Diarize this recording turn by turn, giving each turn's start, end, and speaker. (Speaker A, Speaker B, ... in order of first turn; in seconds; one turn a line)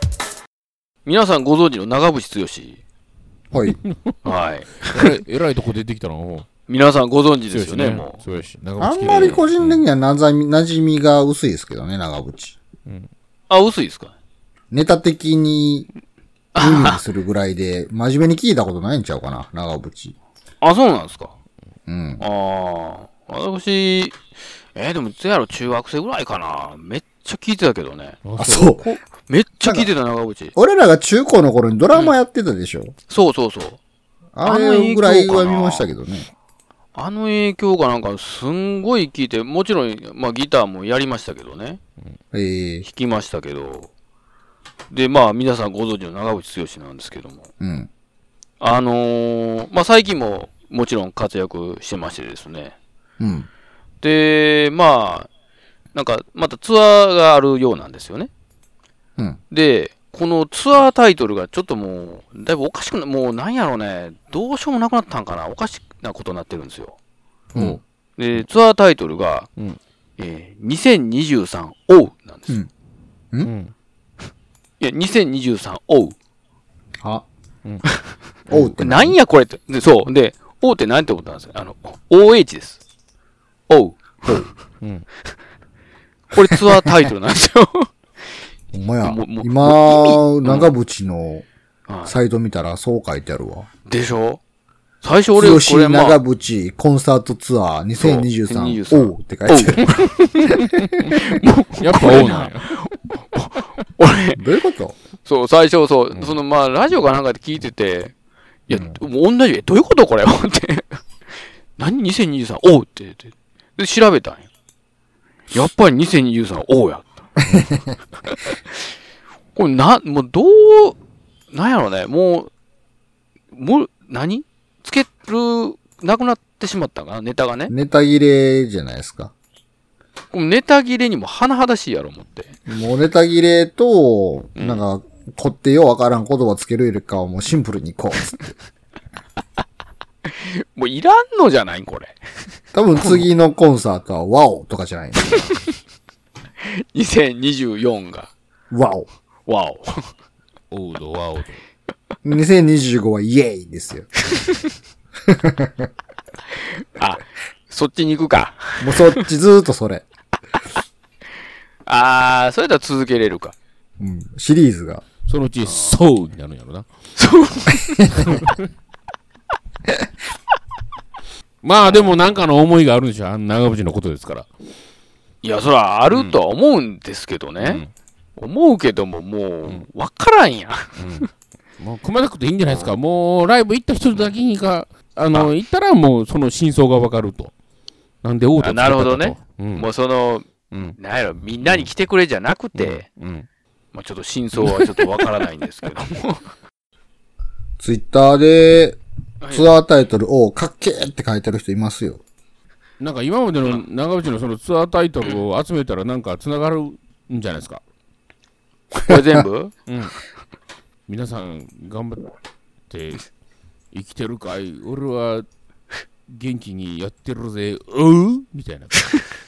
Speaker A: 1.1-2.8
Speaker B: 3.5-3.8
Speaker A: 4.2-5.1
Speaker C: 4.9-6.5
Speaker A: 6.7-8.2
Speaker C: 7.5-9.8
Speaker B: 8.8-12.6
Speaker A: 13.5-14.1
Speaker B: 14.7-15.9
Speaker A: 16.6-17.0
Speaker B: 16.6-20.1
Speaker A: 20.6-21.3
Speaker B: 21.9-22.2
Speaker A: 22.2-24.2
Speaker A: 24.8-28.2
Speaker C: 28.2-28.8
Speaker B: 28.4-28.9
Speaker A: 28.8-30.6
Speaker B: 29.6-29.9
Speaker B: 30.6-33.0
Speaker A: 33.1-33.8
Speaker B: 34.3-36.3
Speaker A: 34.4-35.9
Speaker A: 37.0-41.8
Speaker B: 42.3-42.9
Speaker A: 42.8-43.9
Speaker A: 44.9-47.5
Speaker B: 47.6-47.9
Speaker A: 48.6-52.8
Speaker B: 53.2-53.5
Speaker A: 54.0-55.3
Speaker A: 55.9-58.3
Speaker A: 59.5-67.0
Speaker B: 67.5-67.8
Speaker C: 67.5-67.8
Speaker A: 68.2-69.5
Speaker A: 70.2-72.5
Speaker C: 73.4-73.7
Speaker A: 74.8-76.2
Speaker B: 78.5-79.2
Speaker A: 78.6-82.8
Speaker A: 83.7-84.5
Speaker C: 84.8-85.1
Speaker A: 86.3-87.9
Speaker B: 88.7-91.5
Speaker A: 89.0-90.7
Speaker A: 91.9-92.2
Speaker B: 92.1-93.7
Speaker A: 93.9-94.4
Speaker A: 95.0-96.2
Speaker B: 95.3-99.9
Speaker A: 98.0-100.6
Speaker C: 100.4-102.7
Speaker A: 101.1-104.4
Speaker B: 104.4-105.0
Speaker A: 105.2-108.1
Speaker A: 108.7-111.0
Speaker B: 108.7-109.0
Speaker A: 111.8-114.5
Speaker A: 115.5-117.2
Speaker A: 118.3-118.6
Speaker A: 119.5-121.0
Speaker A: 121.5-122.5
Speaker A: 123.5-127.7
Speaker B: 127.7-129.3
Speaker A: 130.3-132.5
Speaker B: 132.7-138.5
Speaker A: 134.6-134.8
Speaker A: 140.3-142.2
Speaker B: 142.7-145.5
Speaker A: 142.9-143.3
Speaker A: 146.6-148.3
Speaker B: 148.7-149.1
Speaker A: 149.5-150.1
Speaker C: 150.7-151.6
Speaker B: 152.2-154.1
Speaker A: 154.3-154.7
Speaker B: 155.3-155.9
Speaker A: 156.6-159.2
Speaker B: 158.8-160.0
Speaker A: 161.9-163.6
Speaker B: 164.0-165.0
Speaker C: 165.3-166.9
Speaker A: 165.6-166.0
Speaker A: 167.2-168.1
Speaker C: 168.2-168.6
Speaker C: 171.6-174.5
Speaker A: 171.8-172.2
Speaker A: 175.4-177.8
Speaker C: 176.1-176.4
Speaker C: 177.6-177.9
Speaker A: 178.4-181.3
Speaker C: 181.0-181.3
Speaker C: 181.8-187.5
Speaker C: 188.2-189.9
Speaker A: 188.6-193.1
Speaker C: 190.7-191.0
Speaker C: 192.8-193.5
Speaker A: 193.9-196.5
Speaker C: 194.6-195.3
Speaker B: 197.8-202.2
Speaker A: 199.4-199.8
Speaker C: 203.0-207.8
Speaker A: 208.9-209.8
Speaker C: 209.9-210.2
Speaker C: 211.1-212.3
Speaker C: 212.9-213.3
Speaker C: 213.9-215.5
Speaker C: 216.3-219.2